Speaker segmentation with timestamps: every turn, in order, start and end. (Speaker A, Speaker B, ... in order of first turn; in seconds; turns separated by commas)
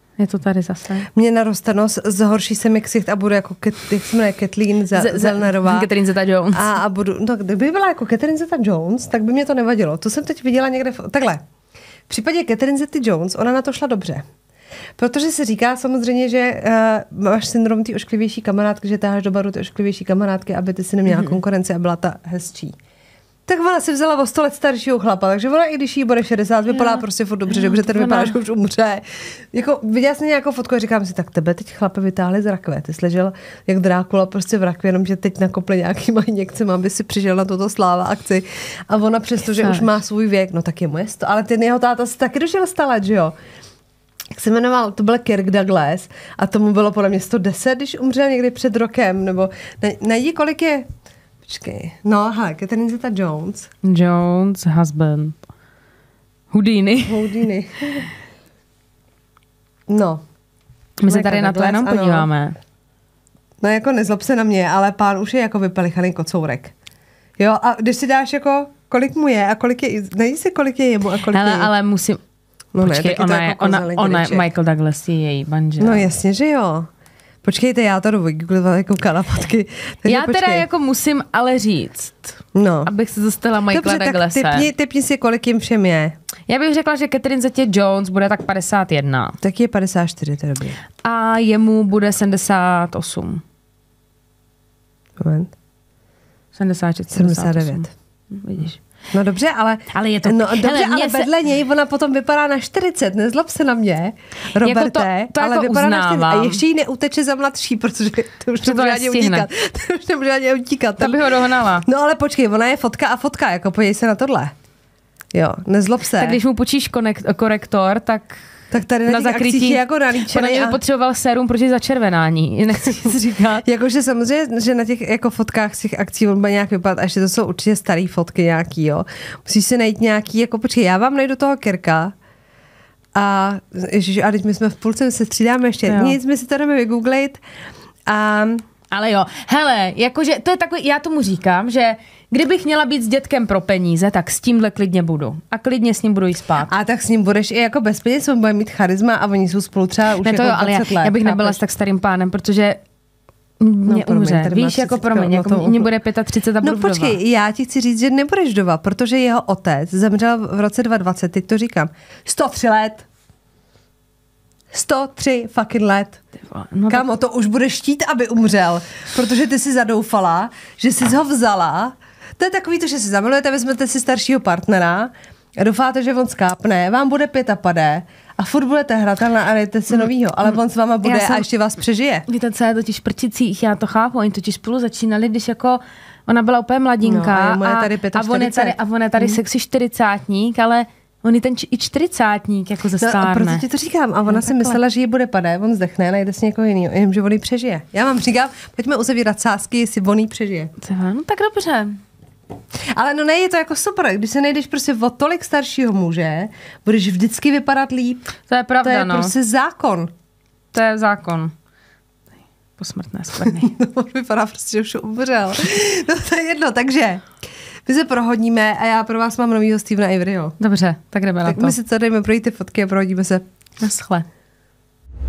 Speaker A: 0.2-1.1, Speaker B: 1.1-5.9, Speaker A: 5.0-6.8, Speaker B: 6.5-11.4, Speaker B: 12.1-14.3, Speaker B: 15.0-22.8, Speaker A: 21.1-21.4, Speaker B: 23.5-43.4, Speaker A: 26.8-28.4, Speaker A: 39.6-39.8, Speaker B: 44.3-50.9, Speaker B: 51.4-53.7, Speaker A: 53.8-55.4, Speaker A: 56.5-57.4, Speaker B: 57.1-58.0, Speaker B: 59.9-60.2, Speaker A: 61.0-62.6, Speaker B: 61.0-62.3, Speaker B: 63.6-66.7, Speaker B: 67.4-71.7, Speaker A: 71.3-72.2, Speaker B: 72.7-74.5, Speaker A: 72.8-76.1, Speaker B: 75.8-76.9, Speaker B: 77.4-80.7, Speaker A: 80.1-84.7, Speaker B: 82.5-82.9, Speaker B: 83.7-86.2, Speaker A: 86.5-89.4, Speaker B: 89.4-90.8, Speaker A: 91.0-93.4, Speaker B: 95.2-95.5, Speaker A: 96.5-98.8, Speaker B: 97.1-97.9, Speaker B: 99.1-114.5, Speaker A: 99.9-101.3, Speaker A: 104.6-106.6, Speaker A: 108.6-109.5, Speaker A: 111.0-111.9, Speaker B: 115.3-116.4, Speaker A: 116.2-118.4, Speaker B: 118.7-120.8, Speaker A: 119.1-123.6, Speaker B: 122.8-132.1, Speaker B: 133.2-137.4, Speaker A: 135.9-136.2, Speaker B: 138.1-138.6, Speaker A: 138.9-146.7, Speaker B: 146.7-151.6, Speaker A: 150.2-152.8, Speaker A: 153.6-157.2, Speaker B: 153.9-155.9, Speaker B: 156.6-163.1, Speaker B: 164.7-166.2, Speaker A: 166.4-167.1, Speaker B: 166.9-182.3, Speaker A: 181.0-181.5, Speaker A: 182.3-193.6, Speaker B: 187.0-189.4, Speaker B: 193.0-200.7, Speaker A: 194.3-194.8, Speaker A: 200.8-202.0, Speaker B: 202.9-210.1, Speaker A: 208.5-209.3, Speaker A: 210.7-211.5, Speaker A: 212.8-213.7, Speaker B: 213.5-217.3, Speaker B: 217.9-220.6, Speaker A: 220.6-221.8, Speaker B: 221.4-223.4, Speaker A: 223.8-224.3